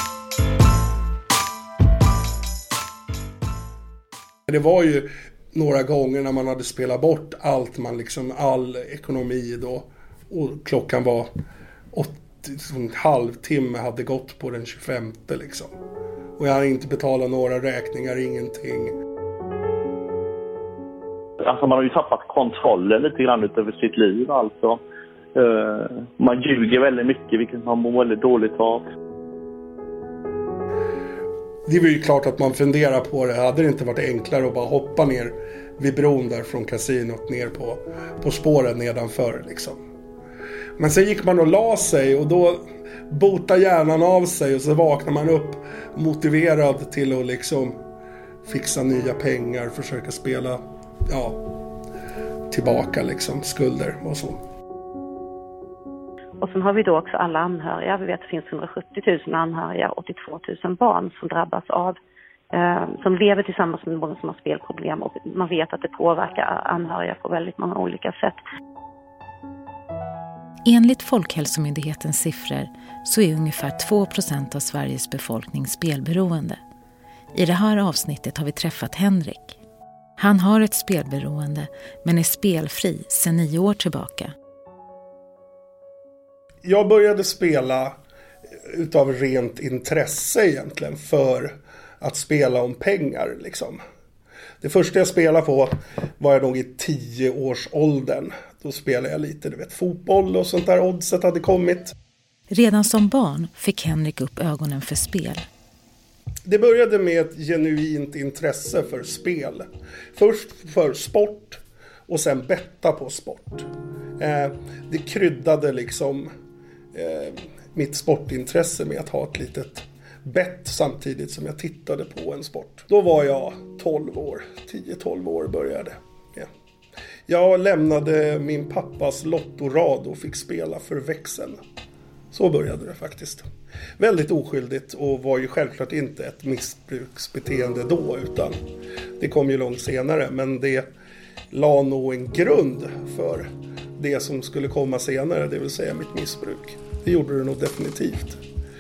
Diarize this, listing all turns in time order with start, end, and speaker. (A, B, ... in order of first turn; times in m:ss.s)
0:04.5-0:11.3 A
0:11.9-0:15.7 A
0:16.4-0:19.0 A
0:21.4-0:24.8 B
0:25.4-0:28.9 B
0:31.7-0:39.8 A
0:40.8-0:47.8 A
0:48.4-0:51.4 A
0:52.5-0:54.4 A
0:56.4-1:02.0 C
1:02.5-1:08.4 C
1:10.7-1:16.6 D
1:17.3-1:19.6 D
1:20.2-1:24.3 D
1:26.6-1:28.0 A
1:28.6-1:33.8 A
1:34.6-1:42.0 A
1:42.5-1:45.4 D
1:46.4-1:56.3 A
1:56.9-2:06.5 A
2:07.3-2:11.6 A
2:12.3-2:13.5 A
2:14.0-2:18.6 A
2:19.2-2:20.9 A
2:21.5-2:28.4 A